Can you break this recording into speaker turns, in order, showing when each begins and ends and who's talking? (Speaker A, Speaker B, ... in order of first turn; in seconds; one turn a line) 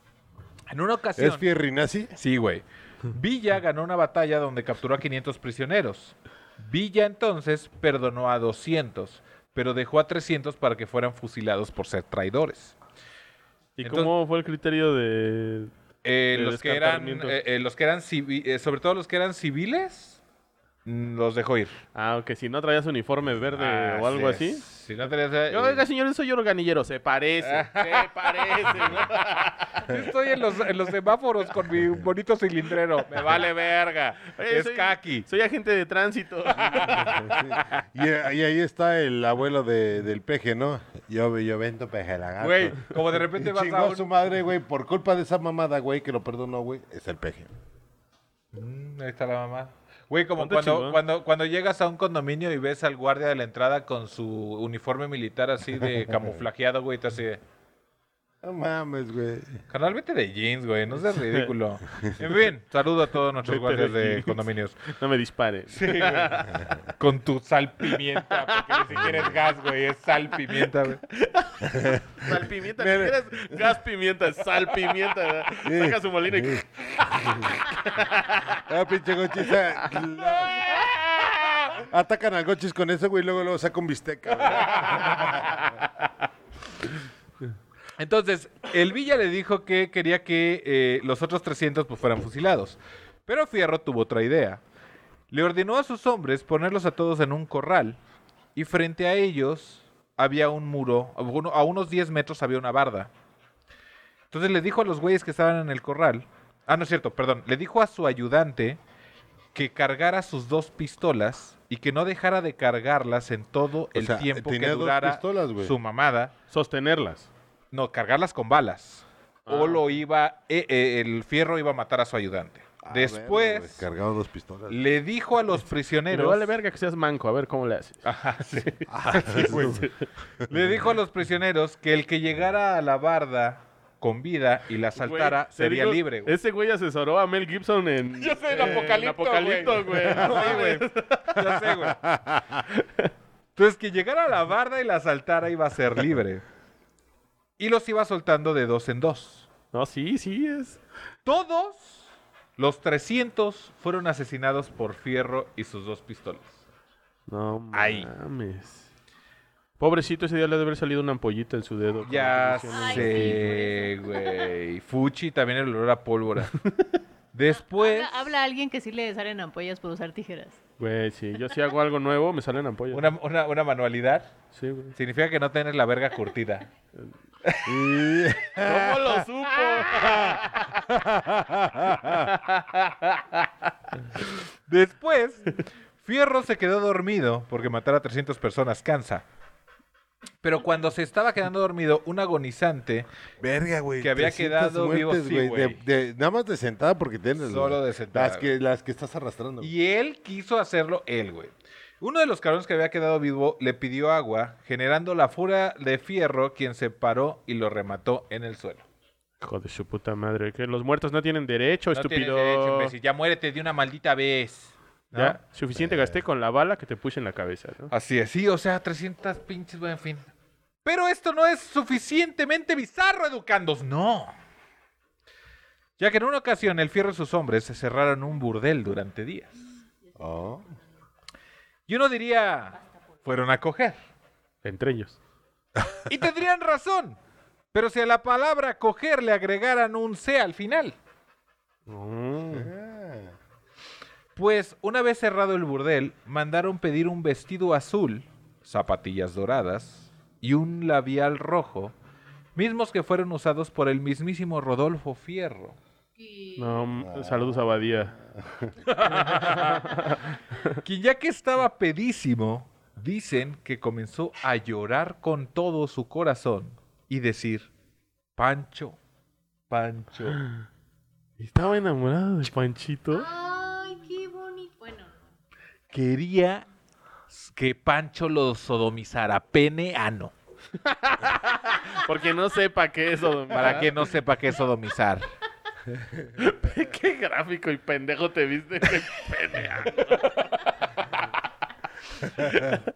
Speaker A: 0.7-1.5
Speaker B: 1.2-2.1
Speaker A: 2.2-12.8
Speaker C: 13.8-15.7
Speaker A: 13.8-14.1
Speaker A: 16.0-20.2
Speaker C: 16.3-17.4
Speaker A: 20.9-21.8
Speaker C: 21.9-24.6
Speaker A: 23.6-25.8
Speaker C: 25.5-29.9
Speaker A: 27.5-29.1
Speaker A: 29.8-35.3
Speaker C: 34.4-37.5
Speaker A: 36.7-37.1
Speaker B: 37.2-47.5
Speaker A: 42.4-44.1
Speaker A: 48.5-57.4
Speaker C: 50.4-51.0
Speaker B: 56.1-56.3
Speaker B: 58.4-59.6
Speaker A: 59.7-64.8
Speaker C: 61.1-61.5
Speaker C: 63.5-66.7
Speaker A: 65.7-71.0
Speaker C: 68.4-68.9
Speaker C: 70.5-78.6
Speaker B: 71.6-73.8
Speaker B: 75.6-77.6
Speaker B: 78.5-80.8
Speaker A: 80.3-81.8
Speaker B: 81.8-85.5
Speaker A: 84.8-85.4
Speaker A: 88.0-94.6
Speaker A: 95.3-98.0
Speaker A: 98.5-103.1
Speaker A: 104.3-108.8
Speaker A: 109.5-116.3
Speaker B: 114.0-115.7
Speaker C: 116.5-117.3
Speaker A: 117.7-123.8
Speaker C: 119.5-120.0
Speaker B: 122.8-124.8
Speaker A: 124.7-126.5
Speaker C: 126.1-128.9
Speaker A: 128.0-129.9
Speaker B: 128.9-129.9
Speaker C: 129.5-129.9
Speaker A: 130.5-136.3
Speaker B: 130.5-130.8
Speaker C: 135.0-141.5
Speaker A: 138.2-142.0
Speaker B: 141.7-142.7
Speaker C: 142.8-143.1
Speaker A: 143.6-146.4
Speaker A: 147.6-149.5
Speaker C: 149.7-150.8
Speaker A: 151.3-152.1
Speaker A: 152.6-156.6
Speaker C: 157.3-158.9
Speaker A: 157.7-158.1
Speaker C: 159.8-163.5
Speaker A: 162.0-166.6
Speaker D: 162.7-164.6
Speaker A: 167.3-168.3
Speaker D: 167.6-170.6
Speaker C: 170.8-173.1
Speaker A: 172.9-174.3
Speaker C: 174.5-174.9
Speaker A: 174.9-176.7
Speaker B: 177.7-179.3
Speaker C: 178.6-180.7
Speaker A: 179.8-180.3
Speaker B: 180.0-182.3
Speaker C: 182.2-183.5
Speaker A: 184.3-189.2
Speaker A: 190.4-193.1
Speaker B: 193.4-199.7
Speaker A: 194.0-195.8
Speaker A: 197.4-198.5
Speaker A: 199.6-208.8
Speaker C: 209.4-212.9
Speaker A: 211.9-215.4
Speaker C: 215.1-217.9
Speaker B: 215.8-216.1
Speaker A: 217.9-220.3
Speaker A: 220.8-224.3
Speaker A: 226.0-229.6
Speaker B: 230.2-230.7
Speaker A: 231.9-234.0
Speaker C: 234.6-235.2
Speaker A: 236.1-237.2
Speaker A: 237.7-241.0
Speaker C: 241.9-242.7
Speaker B: 242.5-243.3
Speaker A: 244.4-251.9
Speaker A: 252.6-255.8
Speaker D: 256.2-257.0
Speaker C: 256.6-258.2
Speaker B: 257.1-257.6
Speaker B: 258.3-258.7
Speaker A: 258.8-260.2
Speaker C: 259.4-260.2
Speaker A: 260.8-267.7
Speaker A: 268.4-269.0
Speaker A: 269.7-270.4
Speaker C: 271.4-273.3
Speaker D: 273.1-275.2
Speaker A: 275.9-276.7
Speaker A: 277.3-280.3
Speaker C: 280.8-284.1
Speaker A: 283.5-285.3
Speaker C: 286.4-290.8
Speaker C: 292.5-292.8